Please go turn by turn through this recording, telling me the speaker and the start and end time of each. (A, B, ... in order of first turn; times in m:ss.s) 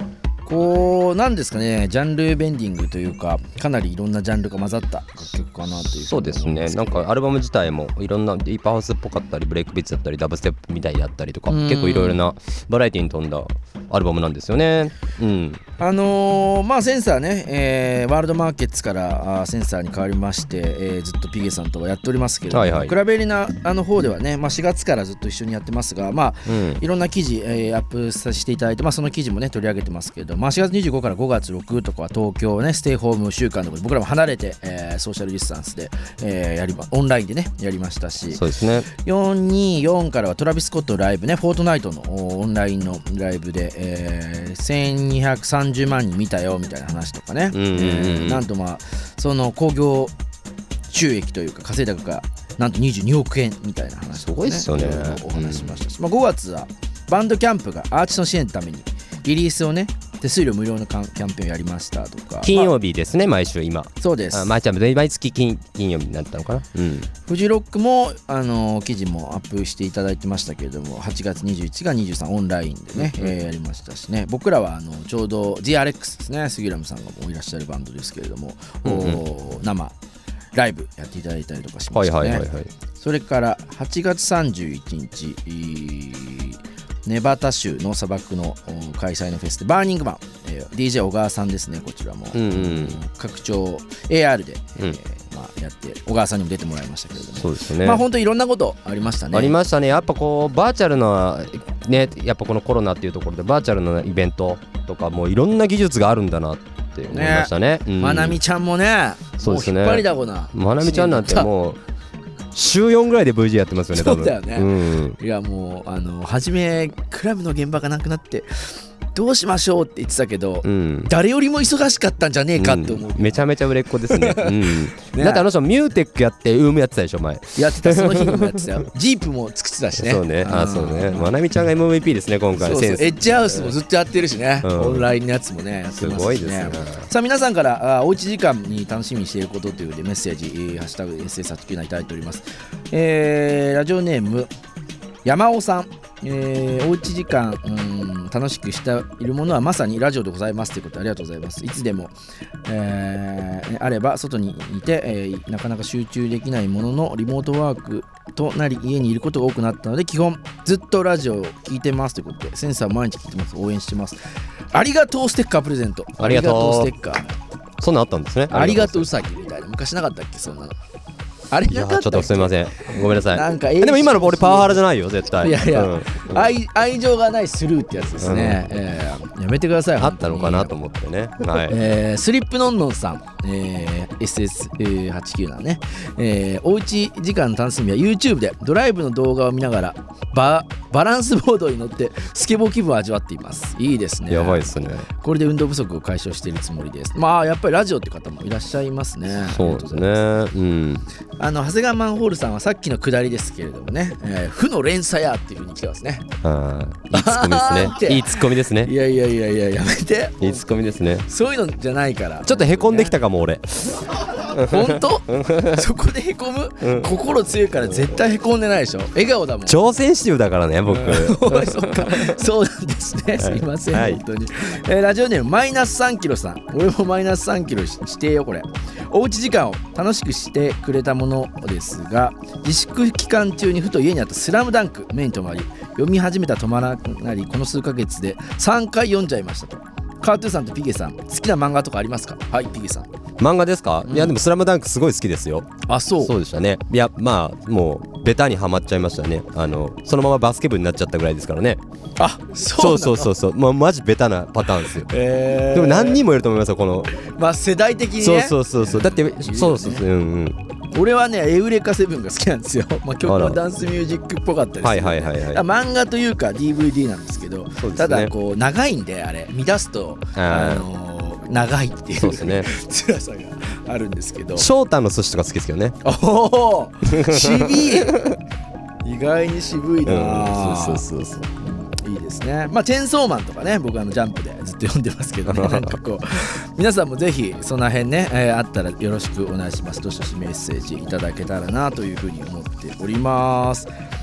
0:00.4-0:07.1 A
0:05.8-0:15.6 B
0:11.5-0:12.2 A
0:15.8-0:50.1 A
0:22.5-0:23.0 B
0:26.5-0:26.8 B
0:38.3-0:38.9 B
0:47.5-0:48.4 B
0:50.9-1:02.8 A
0:54.2-0:55.8 B
1:02.4-1:07.1 B
1:04.0-1:04.6 A
1:07.3-1:20.0 A
1:13.0-1:13.3 B
1:18.8-1:19.2 B
1:20.5-1:22.5 A
1:21.9-1:22.7 B
1:23.0-1:39.6 A
1:32.3-1:33.0 B
1:37.4-1:38.0 B
1:39.3-1:48.4 B
1:47.1-1:51.5 A
1:49.4-1:51.8 B
1:52.5-1:55.2 B
1:53.9-2:05.5 A
2:00.6-2:01.1 B
2:02.6-2:08.7 B
2:07.6-2:11.3 A
2:10.0-2:13.8 B
2:12.6-2:24.5 A
2:14.6-2:15.1 B
2:16.0-2:17.1 B
2:25.2-2:44.2 A
2:44.7-2:47.3 A
2:46.2-2:46.9 B
2:47.8-2:49.1 B
2:48.5-2:50.8 A
2:51.5-2:54.8 A
2:51.7-2:56.5 B
2:55.4-3:00.8 A
2:58.2-2:58.7 B
3:00.0-3:01.8 B
3:01.4-3:20.2 A
3:14.3-3:15.1 B
3:19.4-3:21.1 B
3:21.4-3:26.3 A
3:26.4-3:28.9 B
3:27.1-3:30.7 A
3:30.4-3:31.3 B
3:31.3-3:33.2 A
3:32.4-3:35.8 B
3:34.3-3:39.8 A
3:36.8-3:37.1 B
3:39.7-3:42.4 B
3:40.9-4:03.1 A
3:43.4-3:44.2 B
4:03.4-4:05.7 B
4:04.1-4:04.4 A
4:05.9-4:06.3 A
4:06.2-4:11.8 B
4:12.2-4:13.3 A
4:12.8-4:15.1 B
4:14.6-4:16.2 A
4:15.7-4:17.1 B
4:17.2-4:20.0 A
4:18.2-4:20.6 B
4:20.9-4:34.7 A
4:23.2-4:23.6 B
4:24.8-4:25.6 B
4:27.8-4:28.3 B
4:30.4-4:30.9 B
4:32.2-4:32.7 B
4:34.6-4:36.0 B
4:36.0-4:38.2 A
4:37.1-4:38.4 B
4:39.0-4:41.0 A
4:40.0-4:41.5 B
4:41.6-4:53.9 A
4:45.5-4:46.0 B